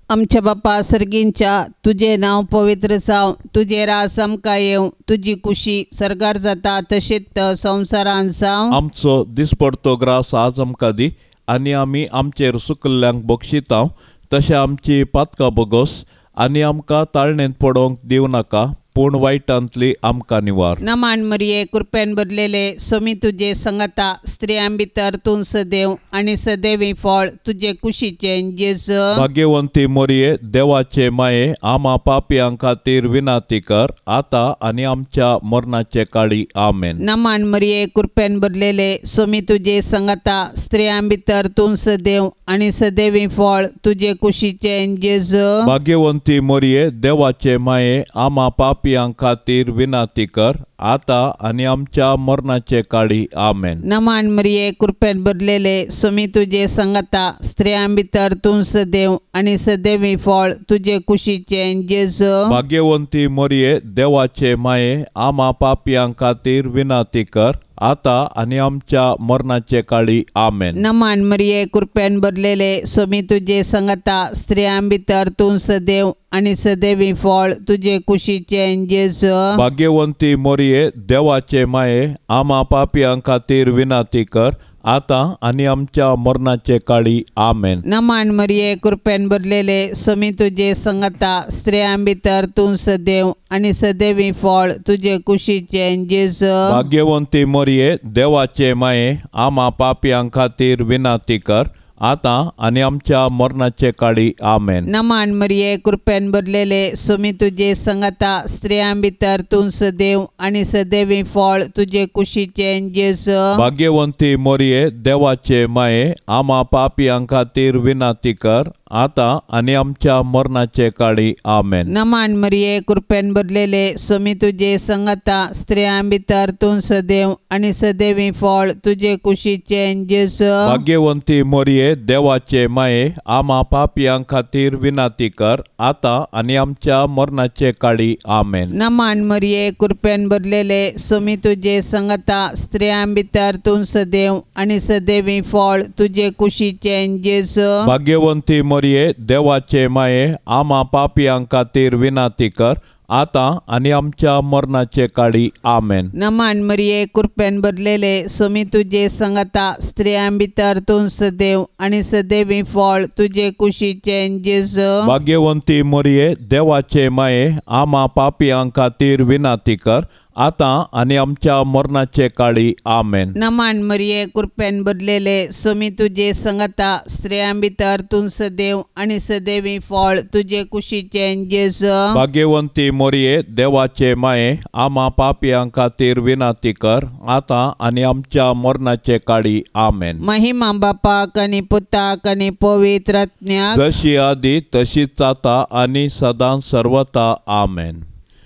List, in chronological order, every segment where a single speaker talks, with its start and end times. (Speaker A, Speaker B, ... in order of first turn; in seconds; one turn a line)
Speaker A: 0.1-8.8
Speaker B: 8.7-20.8
Speaker A: 20.8-29.2
Speaker B: 29.1-37.0
Speaker A: 37.0-45.6
Speaker B: 45.6-53.8
Speaker A: 53.8-62.5
Speaker B: 62.5-70.8
Speaker A: 70.8-79.6
Speaker B: 79.5-87.8
Speaker A: 87.9-96.8
Speaker B: 96.7-104.9
Speaker A: 104.9-113.6
Speaker B: 113.6-121.9
Speaker A: 121.9-130.8
Speaker B: 130.6-138.7
Speaker A: 138.8-147.9
Speaker B: 147.8-156.1
Speaker A: 156.2-165.1
Speaker B: 165.0-173.3
Speaker A: 173.4-182.1
Speaker B: 182.1-190.2
Speaker A: 190.2-193.8
Speaker B: 193.7-198.0